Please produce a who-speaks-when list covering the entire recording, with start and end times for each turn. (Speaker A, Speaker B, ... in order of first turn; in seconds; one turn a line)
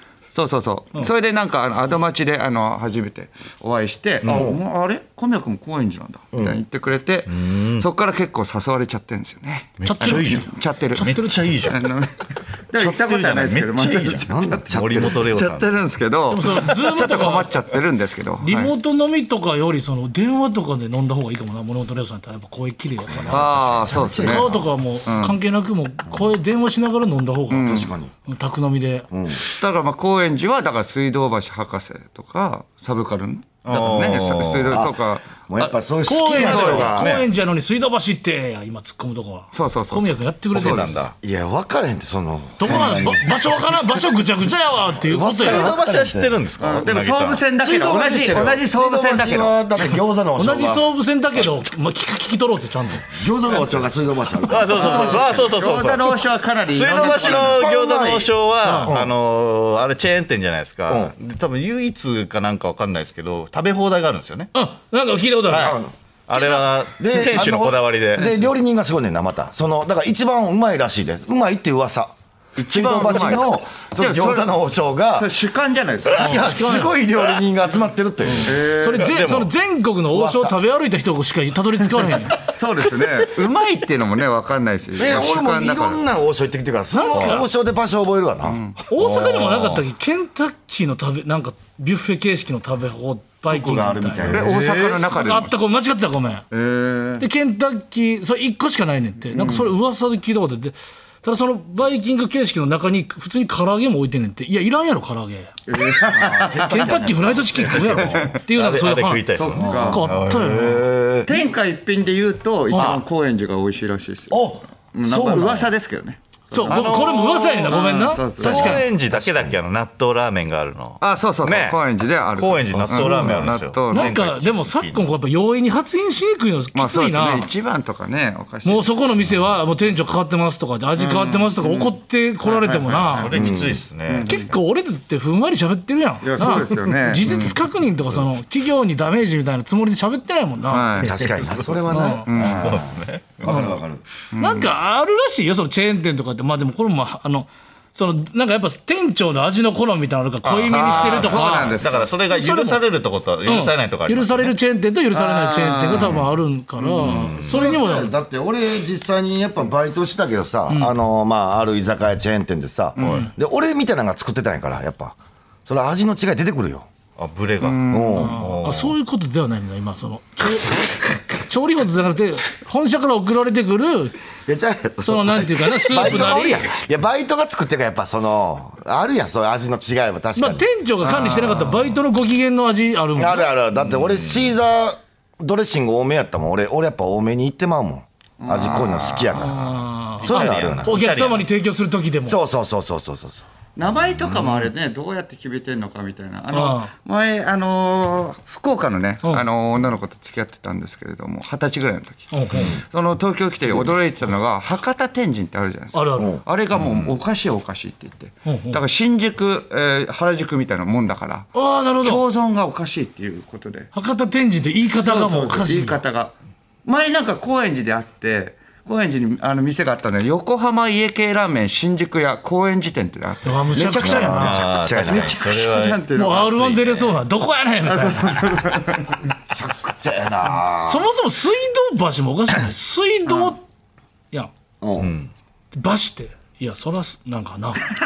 Speaker A: 0.3-18.7
Speaker B: 4.2-4.5
Speaker C: 4.3-4.6
Speaker C: 6.3-6.6
Speaker B: 7.3-7.9
Speaker B: 9.8-11.8
Speaker D: 9.8-11.5
Speaker B: 12.8-15.7
Speaker C: 14.0-15.5
Speaker D: 16.3-17.5
Speaker D: 18.4-23.5
Speaker C: 23.1-24.6
Speaker A: 23.3-24.5
Speaker B: 23.3-23.8
Speaker D: 24.2-29.1
Speaker A: 25.0-25.4
Speaker A: 27.5-27.9
Speaker C: 27.6-28.1
Speaker C: 29.1-29.4
Speaker A: 29.4-35.4
Speaker B: 33.6-34.8
Speaker C: 34.7-37.1
Speaker D: 36.0-41.0
Speaker A: 36.3-36.9
Speaker B: 36.4-37.3
Speaker A: 39.5-41.0
Speaker B: 40.5-41.1
Speaker C: 41.2-43.3
Speaker D: 42.6-45.7
Speaker C: 45.0-46.4
Speaker B: 45.2-47.4
Speaker A: 46.6-50.0
Speaker C: 47.6-50.9
Speaker D: 50.4-53.1
Speaker C: 53.0-55.5
Speaker B: 54.5-56.2
Speaker A: 54.6-57.7
Speaker B: 56.7-64.5
Speaker C: 57.0-59.1
Speaker D: 58.6-59.0
Speaker C: 60.9-61.1
Speaker D: 64.5-65.8
Speaker B: 65.5-68.3
Speaker C: 65.5-65.9
Speaker C: 66.9-75.3
Speaker A: 68.2-68.5
Speaker A: 72.6-74.5
Speaker A: 75.1-76.5
Speaker C: 76.0-78.6
Speaker D: 76.2-76.9
Speaker D: 78.2-82.4
Speaker A: 78.4-79.1
Speaker B: 78.9-79.5
Speaker C: 80.1-80.6
Speaker A: 82.3-86.0
Speaker C: 85.0-88.6
Speaker D: 86.9-87.5
Speaker A: 88.4-88.8
Speaker D: 88.9-94.3
Speaker B: 88.9-89.8
Speaker C: 93.5-94.5
Speaker B: 94.2-95.1
Speaker A: 94.2-95.5
Speaker D: 95.0-96.5
Speaker A: 96.5-97.2
Speaker D: 97.2-105.5
Speaker A: 99.3-99.7
Speaker A: 105.7-107.0
Speaker C: 105.9-108.1
Speaker D: 106.6-110.9
Speaker B: 107.7-111.3
Speaker A: 107.8-108.3
Speaker A: 109.3-110.1
Speaker C: 109.6-110.0
Speaker C: 110.6-111.4
Speaker A: 111.2-116.9
Speaker B: 112.7-113.0
Speaker C: 114.3-115.7
Speaker D: 116.5-118.9
Speaker B: 116.7-121.8
Speaker A: 117.7-118.8
Speaker C: 119.0-119.6
Speaker A: 121.0-124.2
Speaker B: 122.3-125.1
Speaker C: 122.9-123.2
Speaker D: 123.9-127.5
Speaker A: 126.7-128.9
Speaker D: 128.6-133.3
Speaker A: 130.9-133.3
Speaker B: 133.0-134.6
Speaker C: 133.3-133.8
Speaker A: 134.1-134.5
Speaker D: 134.2-141.0
Speaker A: 136.2-137.6
Speaker A: 140.7-141.1
Speaker B: 141.0-141.8
Speaker C: 141.0-144.0
Speaker D: 141.9-142.3
Speaker A: 142.2-142.8
Speaker B: 142.4-143.7
Speaker A: 144.3-144.7
Speaker D: 144.4-151.8
Speaker B: 150.4-154.5
Speaker A: 150.7-152.1
Speaker D: 152.3-152.8
Speaker D: 153.4-158.1
Speaker A: 155.1-156.2
Speaker B: 157.0-157.7
Speaker C: 157.1-165.1
Speaker A: 162.9-163.3
Speaker B: 163.0-163.2
Speaker C: 165.7-166.9
Speaker B: 167.2-168.9
Speaker A: 167.6-168.2
Speaker C: 167.8-168.4
Speaker D: 168.2-174.2
Speaker C: 174.5-180.7
Speaker D: 175.0-176.7
Speaker D: 180.3-183.5
Speaker B: 181.2-181.8
Speaker C: 183.2-189.7
Speaker B: 183.8-184.5
Speaker A: 188.4-189.4
Speaker D: 189.3-192.4
Speaker B: 190.2-191.5
Speaker C: 190.2-190.9
Speaker C: 192.2-193.4
Speaker A: 193.8-213.9
Speaker B: 194.1-194.7
Speaker D: 196.5-196.9
Speaker D: 202.3-202.8
Speaker C: 202.5-202.8
Speaker D: 205.9-206.3
Speaker B: 206.7-207.2
Speaker D: 208.4-208.8
Speaker D: 211.5-212.2
Speaker D: 213.9-216.0
Speaker A: 214.9-216.3
Speaker A: 216.8-227.1
Speaker D: 223.4-224.6
Speaker C: 224.0-225.4
Speaker B: 224.3-226.1
Speaker D: 226.1-228.5
Speaker A: 227.8-229.2
Speaker C: 229.5-231.1
Speaker D: 230.8-233.6
Speaker A: 233.3-233.5
Speaker C: 234.8-235.1
Speaker B: 235.0-235.3
Speaker D: 235.7-237.9